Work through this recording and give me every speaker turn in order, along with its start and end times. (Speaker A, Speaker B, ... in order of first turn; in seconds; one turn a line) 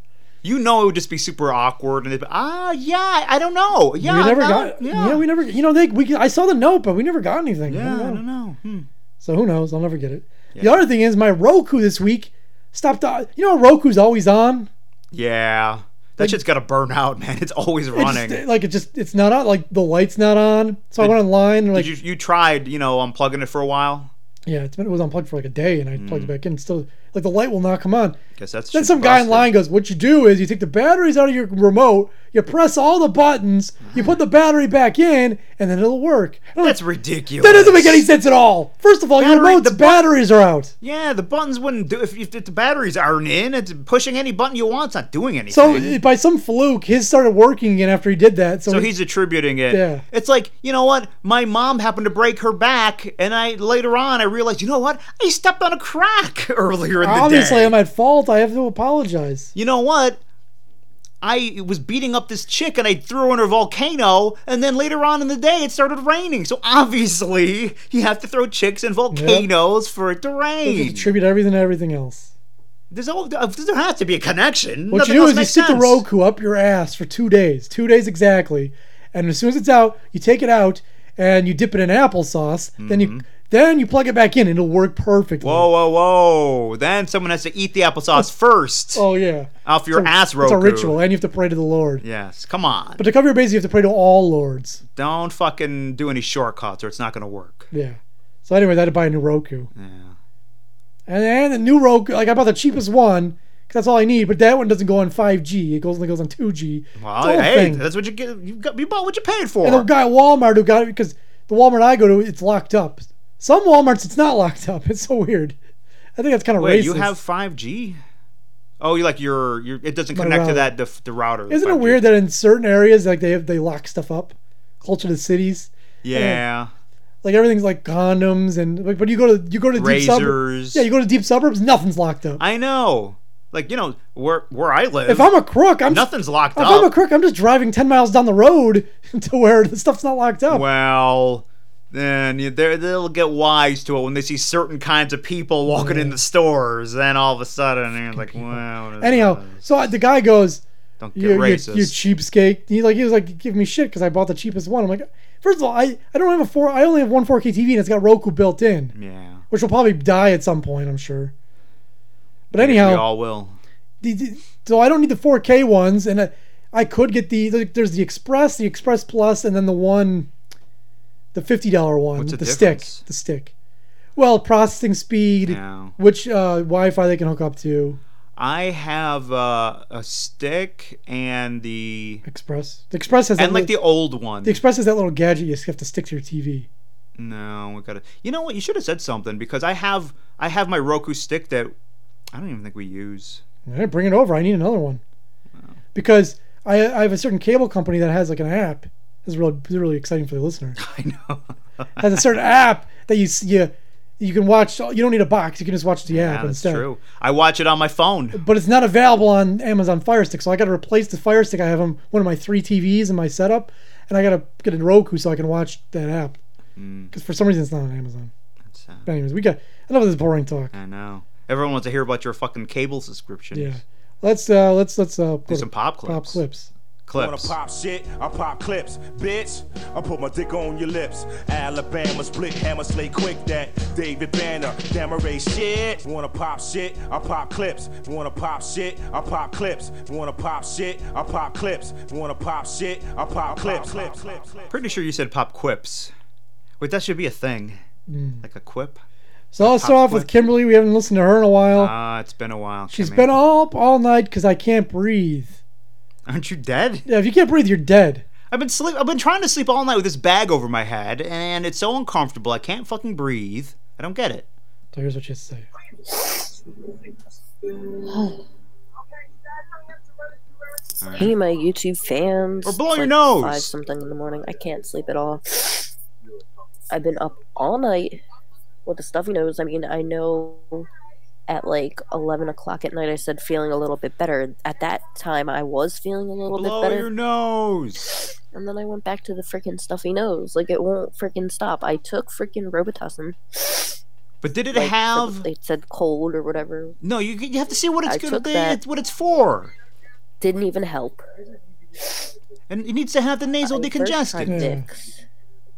Speaker A: 0.4-5.2
Speaker B: 4.0-8.2
Speaker A: 7.7-8.9
Speaker B: 9.2-14.7
Speaker A: 10.6-10.8
Speaker A: 15.1-18.4
Speaker B: 17.9-21.9
Speaker A: 21.7-24.1
Speaker B: 24.5-28.2
Speaker A: 25.9-26.3
Speaker A: 28.4-29.5
Speaker B: 28.7-36.8
Speaker A: 33.8-34.2
Speaker A: 36.6-38.1
Speaker B: 37.4-40.7
Speaker A: 39.2-40.1
Speaker A: 40.8-46.0
Speaker B: 45.5-48.9
Speaker A: 48.7-57.8
Speaker B: 49.7-50.0
Speaker B: 57.0-59.5
Speaker A: 59.5-60.2
Speaker A: 61.2-71.1
Speaker B: 69.1-69.5
Speaker B: 70.7-72.3
Speaker A: 72.9-76.0
Speaker B: 74.9-85.7
Speaker A: 82.8-83.3
Speaker A: 85.4-89.0
Speaker B: 89.0-92.0
Speaker A: 89.7-91.0
Speaker A: 92.0-93.1
Speaker B: 93.0-94.8
Speaker A: 95.0-97.7
Speaker B: 97.7-99.7
Speaker A: 99.8-100.2
Speaker B: 101.1-107.8
Speaker A: 107.0-109.9
Speaker B: 109.6-115.6
Speaker B: 116.2-117.2
Speaker A: 116.6-118.0
Speaker A: 118.8-122.1
Speaker B: 120.1-120.7
Speaker B: 121.5-126.4
Speaker A: 126.0-126.7
Speaker B: 127.2-132.4
Speaker A: 129.8-130.8
Speaker A: 132.4-135.3
Speaker B: 135.1-140.7
Speaker A: 135.9-136.9
Speaker A: 140.5-149.7
Speaker B: 145.7-146.2
Speaker B: 148.1-150.6
Speaker A: 151.0-152.0
Speaker B: 151.2-158.9
Speaker A: 158.9-159.4
Speaker B: 159.5-161.3
Speaker B: 162.5-163.1
Speaker A: 162.5-163.6
Speaker B: 164.0-170.3
Speaker B: 171.3-173.5
Speaker A: 172.2-173.0
Speaker B: 174.2-178.0
Speaker A: 175.5-175.9
Speaker A: 178.4-182.2
Speaker B: 182.2-183.7
Speaker A: 183.4-184.6
Speaker B: 184.4-186.7
Speaker A: 187.2-191.7
Speaker A: 192.3-193.4
Speaker B: 193.7-195.0
Speaker B: 195.9-200.8
Speaker A: 200.8-202.2
Speaker B: 202.0-206.9
Speaker A: 206.1-208.4
Speaker B: 208.3-216.4
Speaker A: 216.8-217.1
Speaker B: 217.1-218.3
Speaker A: 218.7-219.1
Speaker B: 219.1-220.7
Speaker A: 220.7-223.8
Speaker B: 223.5-226.7
Speaker A: 225.5-226.4
Speaker A: 227.1-227.6
Speaker C: 227.1-244.7
Speaker A: 243.6-246.1
Speaker A: 246.8-247.8
Speaker B: 248.1-248.4
Speaker A: 248.4-249.0
Speaker B: 249.5-251.9
Speaker A: 249.6-250.4
Speaker A: 251.7-253.3
Speaker B: 252.9-255.6
Speaker A: 256.3-257.1
Speaker B: 257.1-258.2
Speaker A: 258.5-264.5
Speaker B: 264.9-265.7
Speaker D: 266.1-266.5
Speaker D: 268.0-268.4
Speaker A: 271.0-271.4
Speaker D: 271.1-275.9
Speaker A: 272.6-273.7
Speaker D: 276.9-278.2
Speaker D: 278.9-280.9
Speaker D: 281.5-287.1
Speaker A: 286.5-288.2
Speaker D: 288.5-294.0
Speaker A: 294.4-295.5
Speaker D: 294.7-297.0
Speaker A: 297.0-299.7
Speaker D: 298.1-298.8
Speaker D: 300.4-301.2
Speaker A: 302.7-304.7
Speaker D: 303.6-305.2
Speaker B: 304.4-304.9